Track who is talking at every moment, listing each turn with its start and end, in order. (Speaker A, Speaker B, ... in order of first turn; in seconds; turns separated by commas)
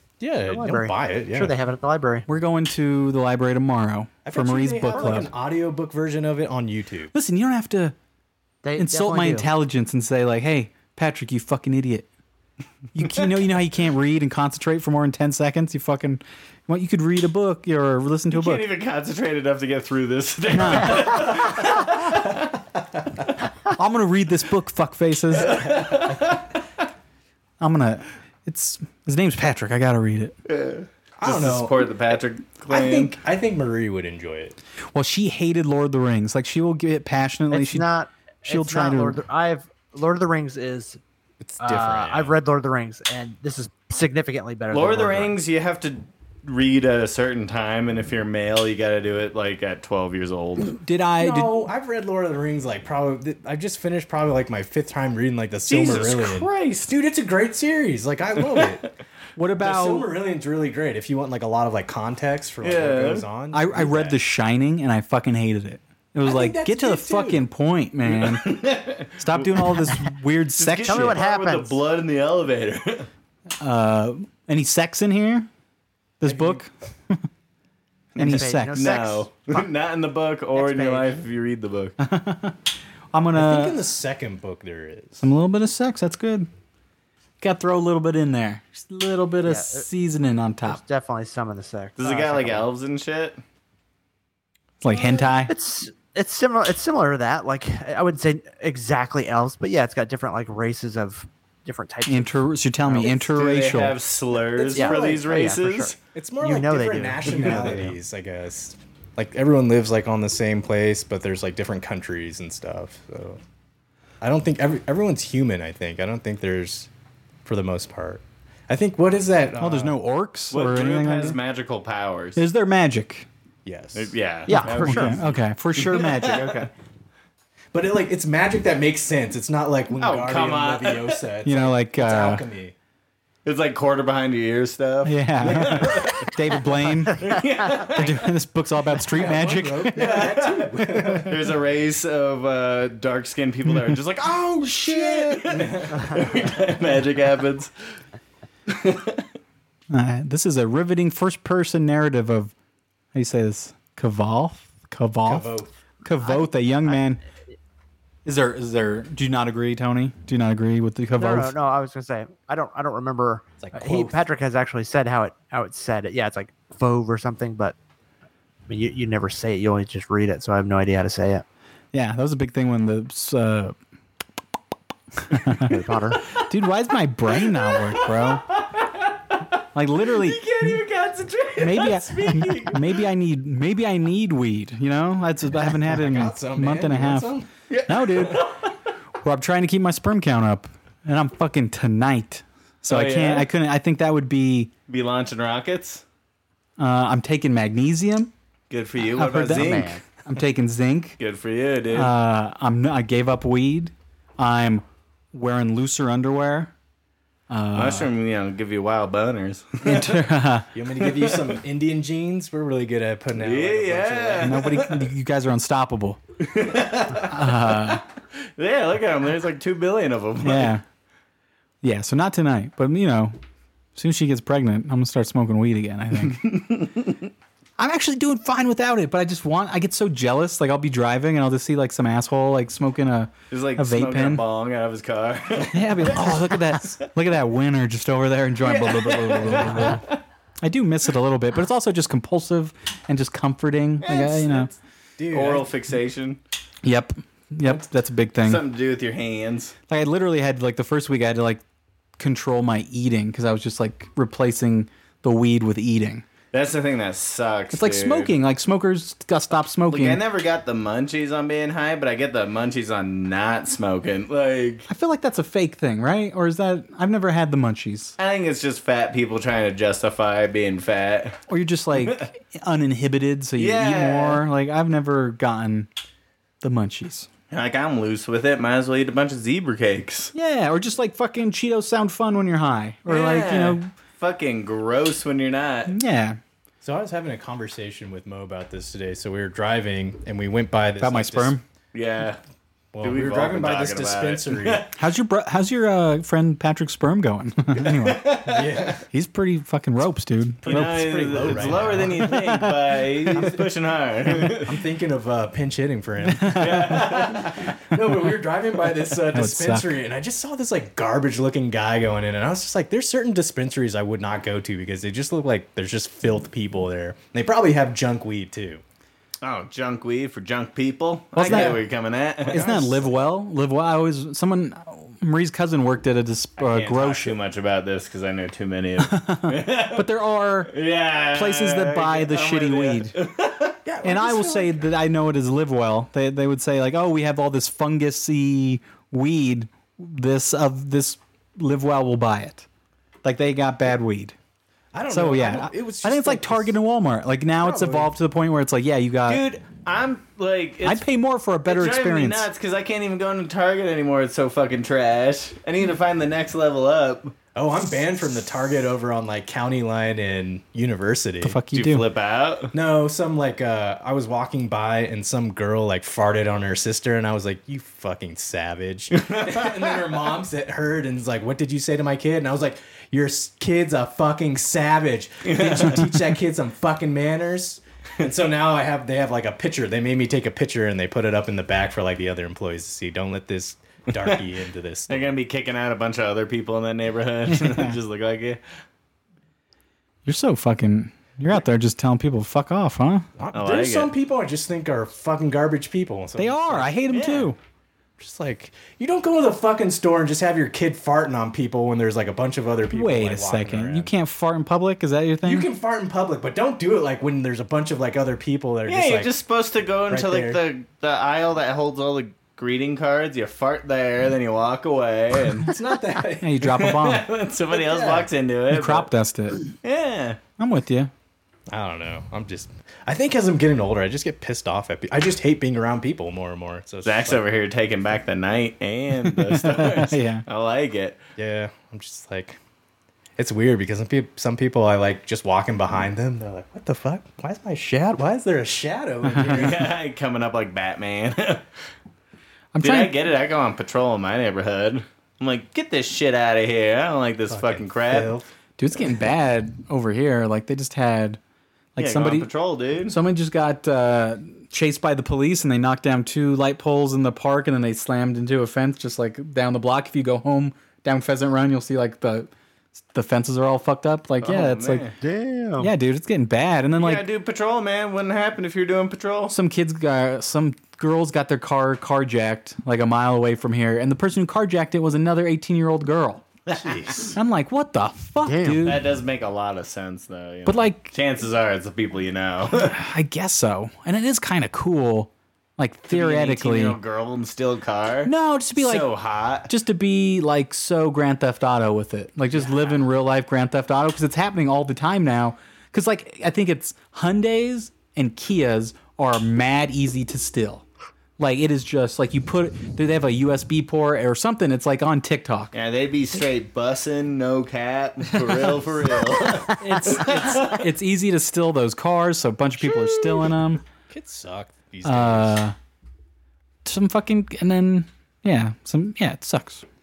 Speaker A: 0.2-1.5, Speaker B: 0.5-2.3, Speaker C: 2.3-5.3, Speaker A: 4.2-7.1, Speaker B: 4.9-5.3, Speaker C: 7.1-8.0, Speaker B: 8.6-9.5, Speaker C: 8.8-12.1, Speaker C: 12.9-18.7, Speaker D: 18.3-22.3, Speaker C: 20.5-21.4, Speaker C: 23.7-25.6, Speaker D: 25.4-26.4, Speaker A: 25.4-26.4, Speaker C: 27.6-30.4, Speaker D: 30.5-33.2, Speaker A: 31.2-31.8, Speaker A: 32.7-34.6, Speaker C: 34.9-37.9, Speaker B: 37.5-41.0, Speaker C: 38.5-39.2, Speaker A: 41.4-42.4, Speaker B: 41.6-45.4, Speaker D: 44.7-50.8, Speaker C: 50.6-51.7, Speaker A: 51.2-58.9, Speaker D: 55.7-56.9, Speaker D: 58.4-58.8, Speaker C: 59.4-60.1, Speaker A: 59.6-64.2, Speaker D: 62.6-63.3, Speaker C: 63.5-68.6, Speaker A: 66.2-67.4, Speaker D: 68.1-73.1, Speaker C: 69.2-71.2, Speaker B: 70.8-71.8, Speaker C: 73.6-75.5, Speaker C: 76.2-77.2, Speaker A: 76.2-76.6, Speaker C: 78.2-79.0, Speaker D: 78.2-82.0, Speaker B: 78.2-79.7, Speaker B: 80.5-81.2, Speaker C: 82.0-82.6, Speaker C: 83.1-83.8, Speaker A: 83.3-85.3, Speaker C: 85.2-86.5, Speaker C: 87.4-90.8, Speaker B: 89.4-89.9, Speaker B: 90.7-92.7, Speaker D: 92.0-93.4, Speaker C: 94.8-95.5, Speaker B: 95.5-102.4, Speaker C: 102.1-104.0, Speaker D: 103.0-106.0, Speaker A: 104.6-105.2, Speaker B: 104.7-108.0, Speaker A: 106.1-113.4, Speaker D: 107.4-107.7, Speaker A: 114.2-116.9, Speaker A: 117.5-119.9, Speaker C: 119.6-121.4, Speaker D: 120.5-122.4, Speaker C: 122.4-123.3, Speaker A: 123.7-124.2, Speaker D: 124.0-126.7, Speaker B: 124.5-125.2, Speaker C: 124.5-126.7, Speaker A: 127.7-132.7, Speaker D: 129.9-131.2, Speaker C: 131.4-132.4, Speaker D: 133.4-136.3, Speaker C: 135.0-140.3, Speaker D: 137.2-138.3, Speaker A: 139.1-141.5, Speaker D: 139.9-147.7, Speaker C: 143.7-144.0, Speaker A: 144.6-146.2, Speaker C: 144.6-145.2, Speaker D: 148.7-149.3, Speaker C: 149.9-152.5, Speaker C: 153.1-155.5, Speaker A: 155.2-155.7, Speaker C: 156.0-157.2, Speaker B: 156.2-157.0, Speaker C: 158.2-161.6, Speaker B: 161.2-167.8, Speaker A: 163.6-164.2, Speaker B: 168.7-171.4, Speaker C: 171.9-173.8, Speaker C: 175.3-175.8, Speaker B: 175.7-176.2, Speaker C: 176.4-178.4, Speaker D: 177.4-179.1, Speaker C: 179.8-180.8, Speaker D: 180.1-183.0, Speaker C: 181.6-187.3, Speaker A: 185.8-187.5, Speaker D: 187.7-188.7, Speaker C: 187.9-188.4, Speaker C: 189.2-194.7, Speaker D: 192.9-193.5, Speaker D: 194.9-196.0, Speaker C: 196.8-198.3, Speaker D: 198.7-200.0, Speaker C: 199.0-201.2, Speaker B: 199.5-200.0, Speaker D: 201.2-202.1, Speaker C: 201.9-206.7, Speaker C: 207.5-208.1, Speaker D: 207.8-210.2, Speaker C: 209.8-210.7, Speaker A: 210.7-214.6, Speaker D: 211.1-211.6, Speaker D: 213.3-215.0, Speaker C: 214.4-216.2, Speaker D: 216.4-218.0, Speaker C: 217.1-218.0, Speaker D: 218.6-220.8, Speaker C: 220.4-220.8, Speaker C: 221.8-223.4, Speaker C: 224.0-226.4, Speaker D: 226.4-227.2, Speaker C: 227.8-234.4, Speaker D: 233.5-236.5, Speaker C: 235.7-240.0, Speaker D: 238.6-240.2, Speaker A: 239.4-240.0, Speaker C: 240.6-244.7, Speaker D: 244.0-244.7, Speaker A: 245.2-245.7, Speaker D: 245.3-246.4, Speaker C: 246.8-248.6, Speaker D: 248.4-249.7, Speaker C: 249.9-251.6, Speaker C: 252.2-256.2, Speaker D: 256.5-258.3, Speaker C: 257.7-260.2, Speaker D: 259.9-264.9, Speaker C: 264.9-268.2, Speaker D: 268.2-271.4, Speaker C: 271.5-275.9, Speaker D: 272.0-272.3, Speaker D: 273.6-274.4, Speaker C: 276.6-277.3, Speaker D: 277.5-280.3, Speaker C: 280.3-283.9, Speaker D: 283.1-285.9, Speaker C: 285.9-286.4, Speaker A: 286.8-291.6, Speaker C: 291.0-291.6, Speaker D: 291.9-292.4, Speaker A: 292.9-294.9, Speaker D: 293.0-294.9, Speaker C: 295.0-298.6, Speaker D: 297.8-298.7, Speaker A: 298.4-299.0, Speaker C: 299.1-303.6, Speaker A: 300.6-302.6, Speaker D: 300.6-304.8, Speaker A: 303.3-303.7, Speaker A: 304.5-318.8, Speaker C: 306.2-307.1, Speaker D: 306.6-307.6, Speaker C: 309.3-310.0, Speaker D: 319.4-322.6, Speaker C: 321.4-321.8, Speaker A: 321.4-321.8, Speaker A: 322.4-323.1, Speaker C: 322.5-327.4, Speaker D: 326.6-330.1, Speaker C: 329.0-330.7, Speaker D: 330.7-333.8, Speaker C: 331.3-333.1, Speaker A: 333.9-334.9, Speaker C: 334.0-342.7, Speaker C: 343.2-344.4, Speaker A: 344.9-346.8, Speaker C: 345.1-349.4, Speaker A: 347.6-348.1, Speaker D: 349.3-351.0, Speaker C: 350.8-352.5, Speaker D: 351.7-357.3, Speaker A: 357.6-361.6, Speaker C: 361.4-362.1, Speaker D: 361.7-362.7, Speaker A: 362.7-385.3, Speaker D: 369.2-370.2, Speaker D: 375.4-376.0, Speaker D: 385.1-388.6, Speaker C: 387.5-388.0, Speaker C: 390.3-393.3, Speaker A: 393.4-396.9, Speaker D: 393.5-394.1, Speaker C: 396.4-397.6, Speaker D: 397.1-397.5, Speaker A: 398.2-404.1, Speaker C: 402.9-405.7, Speaker A: 405.4-409.3, Speaker D: 408.9-415.7, Speaker A: 410.1-410.6, Speaker A: 415.6-416.6, Speaker C: 416.4-417.3, Speaker D: 416.7-419.1, Speaker A: 417.7-418.3, Speaker C: 418.7-419.6, Speaker D: 419.7-420.4, Speaker C: 420.6-421.1, Speaker A: 421.7-427.4, Speaker D: 427.1-431.2, Speaker C: 429.2-430.4, Speaker A: 431.4-432.6, Speaker A: 433.4-439.9, Speaker C: 439.3-439.6, Speaker D: 439.4-441.6, Speaker C: 442.7-443.2, Speaker D: 442.8-448.3, Speaker A: 447.5-448.5, Speaker C: 448.8-451.4, Speaker C: 452.0-452.5, Speaker D: 452.0-453.2, Speaker C: 453.1-462.5, Speaker C: 463.1-465.0, Speaker D: 464.4-465.1, Speaker B: 465.2-465.9, Speaker C: 465.8-467.3, Speaker D: 467.0-469.5, Speaker C: 469.5-476.5, Speaker A: 476.7-477.4, Speaker C: 477.3-479.1, Speaker B: 478.4-478.9, Speaker D: 478.8-483.0, Speaker C: 480.6-481.1, Speaker C: 482.7-487.0, Speaker D: 486.1-489.7, Speaker C: 488.2-489.1, Speaker C: 489.7-500.9, Speaker C: 501.4-505.7, Speaker D: 505.7-510.8, Speaker C: 509.8-513.8, Speaker A: 512.9-513.5, Speaker A: 514.1-515.6, Speaker C: 515.0-515.8, Speaker C: 516.9-519.9